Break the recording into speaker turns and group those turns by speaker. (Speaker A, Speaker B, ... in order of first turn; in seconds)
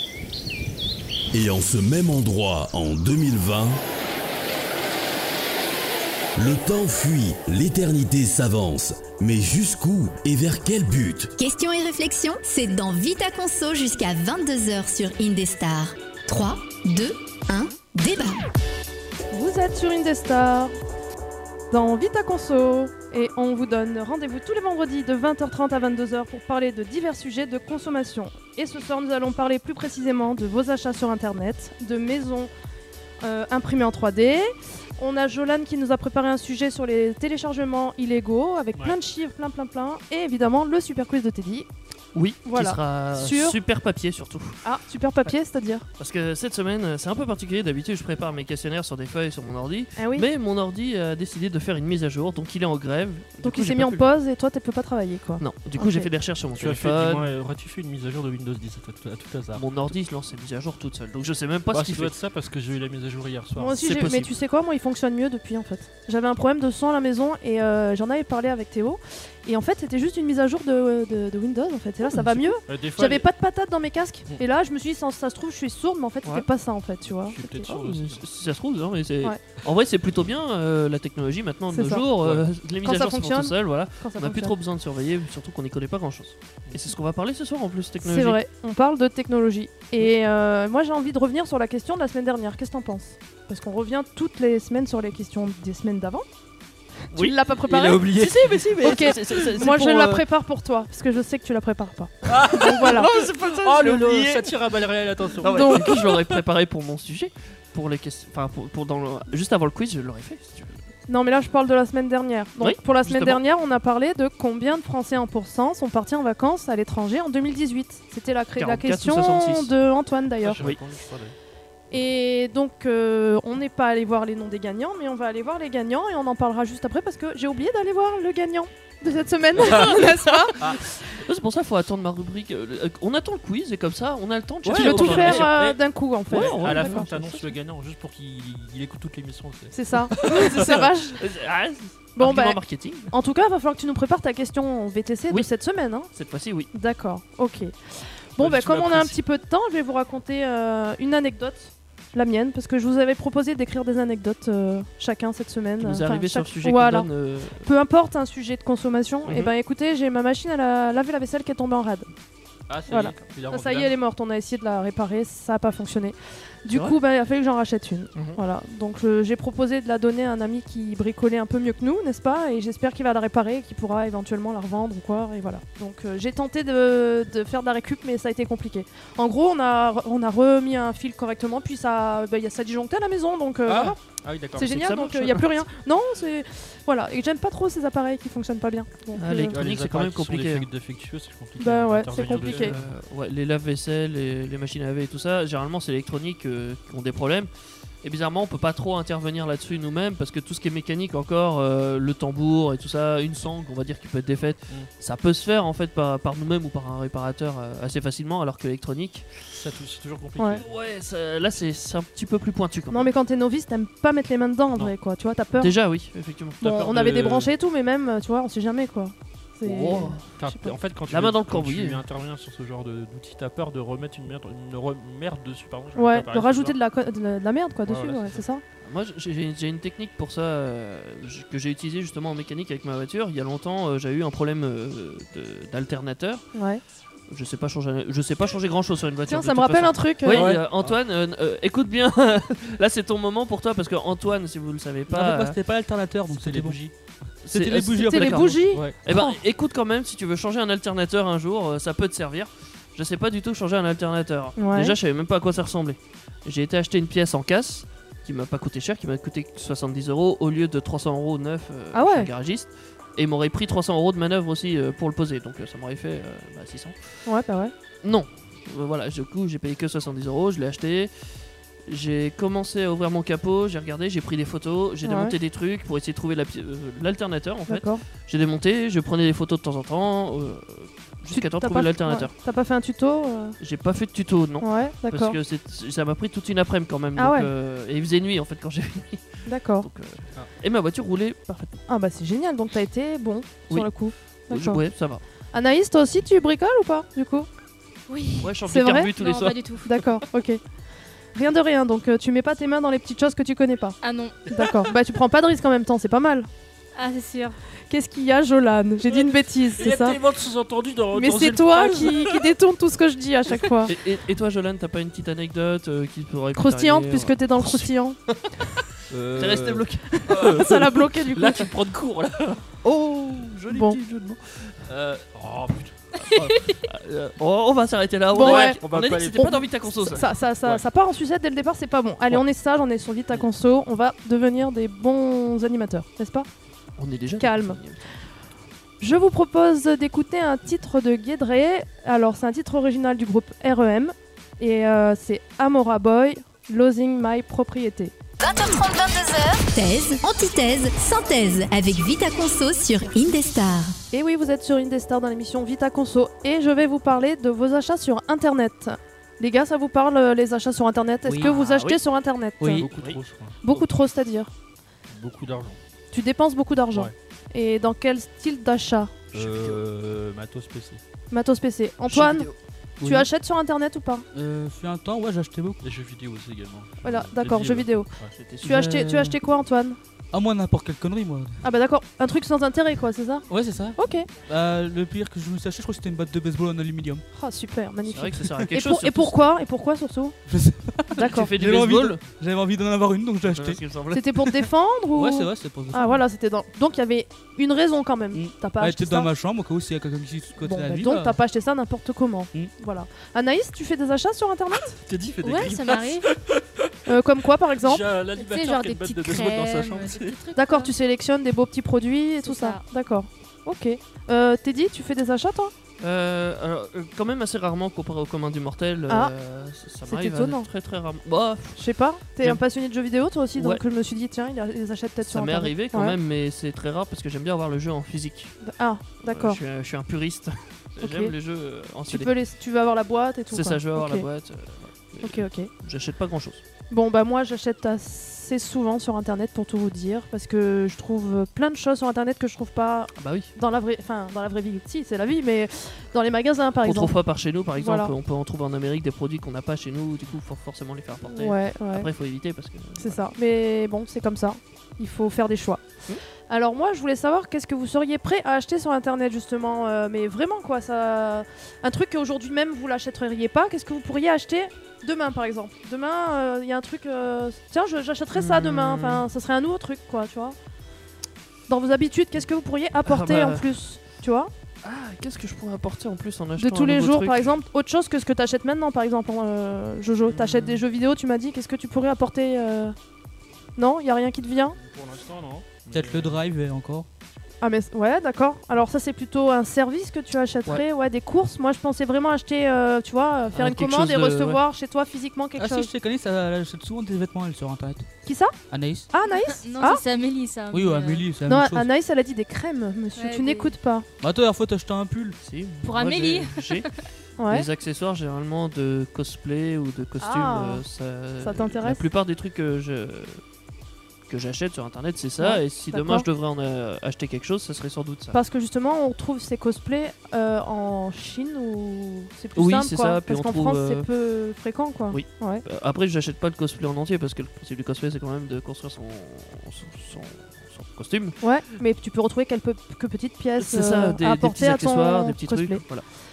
Speaker A: 1.3-3.8, 6.4-11.3
Speaker B: 11.4-18.4, 348.4-354.0
Speaker C: 19.3-20.7, 21.7-32.5, 33.2-41.7, 42.5-43.6, 44.6-45.9, 50.0-50.3, 53.4-56.1, 63.6-77.7, 81.7-82.0, 82.8-84.5, 88.0-96.2, 97.0-98.1, 98.8-103.1, 105.5-106.1, 111.1-120.6, 121.9-130.6, 134.7-137.1, 139.7-141.2, 142.2-146.1, 146.7-162.1, 162.9-184.0, 184.6-189.6, 191.6-192.8, 210.4-210.6, 212.9-215.7, 216.6-220.8, 225.9-228.6, 236.6-236.8, 239.3-240.5, 248.0-249.4, 254.6-255.0, 261.9-262.3, 267.3-267.7, 275.0-275.4, 277.7-278.0, 281.3-283.6, 284.6-285.4, 287.2-287.5, 289.5-289.9, 291.9-294.8, 295.5-297.5, 298.7-299.1, 299.8-300.6, 301.3-306.5, 307.9-310.2, 311.1-313.9, 316.6-318.2, 320.2-321.7, 323.7-324.0, 328.3-336.5, 337.4-337.8, 339.0-348.1, 354.1-362.9, 363.6-364.5, 366.1-369.3, 371.3-372.5, 373.0-374.2, 377.0-378.1, 378.6-380.0, 381.6-384.3, 387.3-390.4, 391.1-391.5, 394.1-399.3, 400.6-405.0, 407.1-408.1, 410.6-415.7, 420.1-420.7, 421.8-426.2, 428.6-429.6, 431.0-431.3, 432.1-434.3, 435.2-435.7, 436.9-447.2, 447.8-448.1, 451.3-452.1, 453.0-455.9, 456.5-470.6, 471.7-474.5, 476.6-483.0, 483.8-484.8, 487.6-495.9, 498.2-498.6, 499.1-500.0, 501.5-504.1, 507.4-507.7, 510.2-510.8, 511.4-512.0, 515.4-516.3, 518.3-525.6, 531.4-535.8
Speaker D: 42.1-44.6, 46.0-54.1, 55.4-57.3, 59.5-62.1, 63.7-64.3, 72.0-72.5, 77.7-88.4, 97.1-100.2, 102.3-104.6, 105.4-110.8, 112.6-113.4, 118.6-119.7, 129.6-135.5, 136.3-137.5, 140.2-143.1, 146.1-146.7, 155.8-157.7, 159.2-159.5, 166.7-167.0, 184.6-185.5, 189.1-190.7, 192.2-197.5, 198.0-209.4, 210.6-213.1, 215.6-216.7, 219.6-220.3, 221.1-222.0, 228.8-236.5, 237.3-245.6, 247.4-267.0, 268.0-271.1, 271.9-282.3, 283.6-291.8, 294.5-295.2, 298.4-299.6, 313.9-318.5, 319.3-320.9, 322.8-324.9, 326.2-330.3, 337.0-338.0, 361.3-362.0, 362.8-363.2, 369.3-369.8, 372.1-372.6, 378.3-378.9, 388.1-389.5, 391.2-392.2, 393.5-394.3, 416.0-421.8, 423.6-423.8, 425.2-428.6, 429.2-432.3, 433.5-436.6, 443.1-443.5, 446.8-453.2, 468.3-469.3, 473.1-473.7, 474.8-477.5, 480.2-480.8, 493.5-494.6, 505.4-506.9, 507.5-513.4, 514.3-518.4, 522.5-524.1, 525.1-531.4, 533.6-536.1
Speaker E: 56.6-59.6, 61.7-63.8, 72.7-73.3, 77.1-78.2, 82.2-82.5, 97.8-99.5, 102.3-106.4, 120.4-121.3, 134.7-140.8, 148.4-149.1, 162.7-163.9, 183.7-184.8, 189.5-192.9, 209.5-210.7, 216.6-217.5, 220.4-226.8, 227.9-228.4, 240.3-241.0, 246.3-246.9, 248.7-249.0, 309.1-312.5, 319.1-322.6, 324.9-326.0, 328.4-329.6, 330.2-330.8, 362.8-363.9, 365.1-365.8, 369.3-371.0, 375.8-378.3, 405.0-406.9, 407.8-410.4, 484.8-486.4
Speaker F: 245.1-248.6, 373.0-373.3, 374.3-375.8, 378.7-379.4, 380.3-381.6, 383.5-387.2, 390.5-393.8, 395.1-396.2, 398.3-401.4, 485.9-487.1, 495.6-498.1, 498.7-499.1, 500.7-501.9, 504.2-505.4
Speaker G: 298.1-298.6, 299.1-299.9, 304.0-304.5, 306.9-307.6, 326.3-326.7, 405.4-406.3, 408.4-410.9, 412.4-412.9, 499.2-501.3, 503.1-503.8, 505.8-506.9